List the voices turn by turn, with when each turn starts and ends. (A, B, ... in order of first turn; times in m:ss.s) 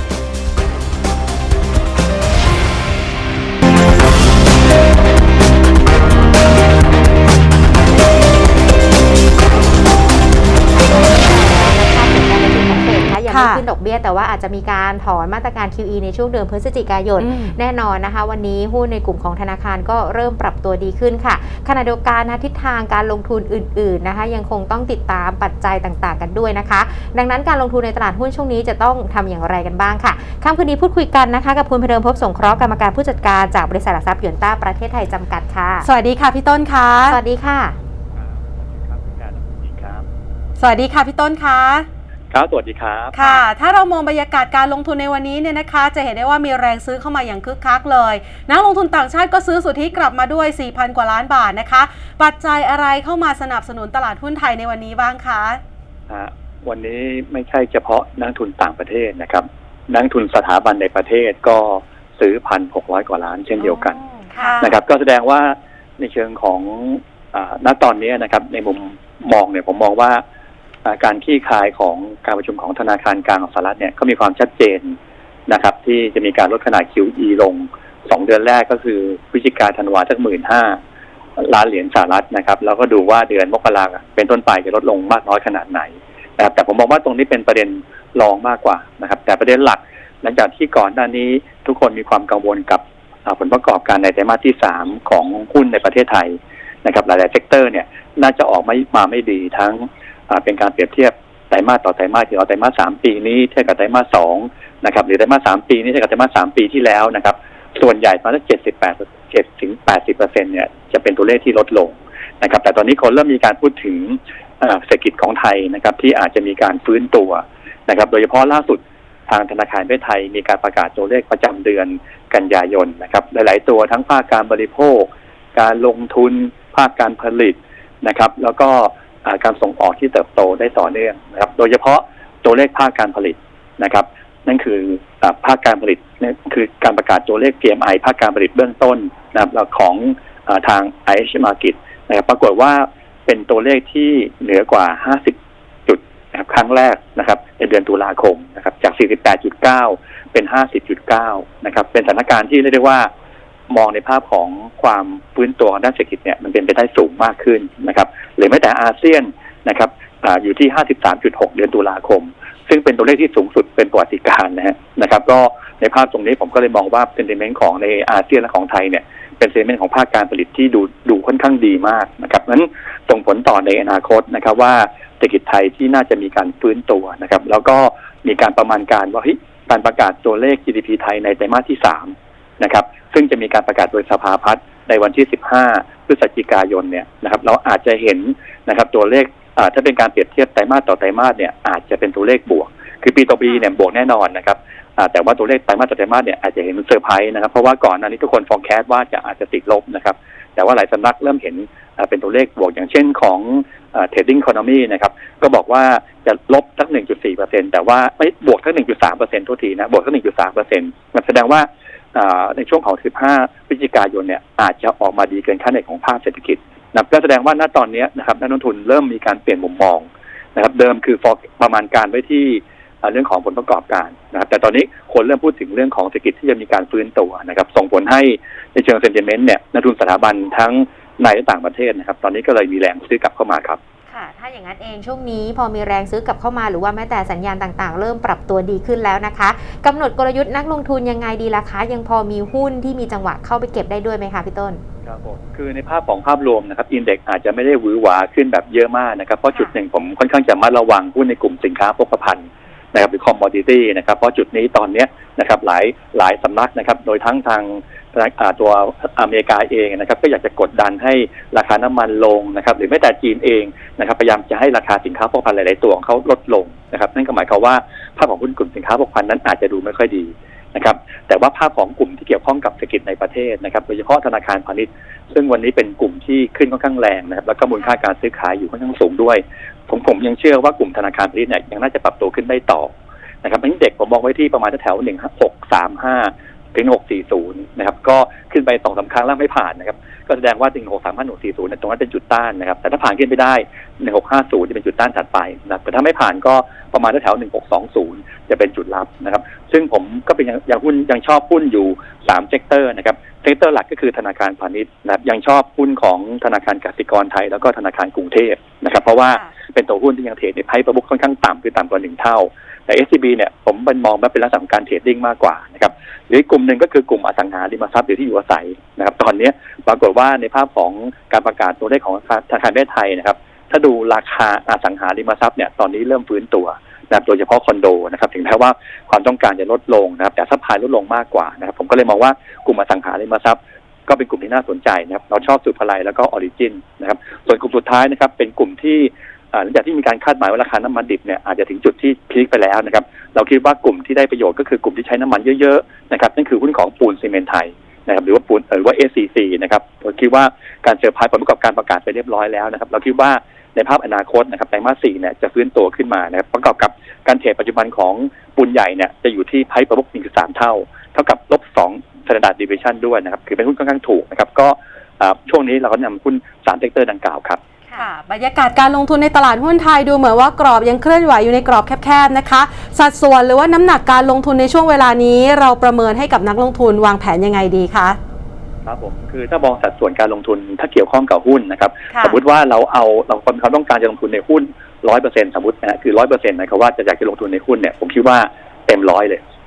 0:10.8-0:35.9 A
0:13.3-0:13.6 B
0:17.2-0:17.6 B
0:35.8-0:37.2 B
0:37.1-0:37.8 A
0:38.1-0:40.0 C
0:40.6-0:41.9 B
0:42.3-0:43.1 C
0:43.1-0:55.6 B
0:56.1-1:04.0 C
1:03.6-1:04.6 A
1:04.4-1:04.7 B
1:04.6-1:10.2 C
1:10.8-1:15.0 C
1:15.5-1:20.8 C
1:21.4-2:33.1 C
2:33.7-3:53.8 C
3:54.1-4:04.8 A
4:05.0-6:07.6 C
6:07.9-6:18.2 B
6:18.8-6:29.4 C
6:22.1-6:22.4 B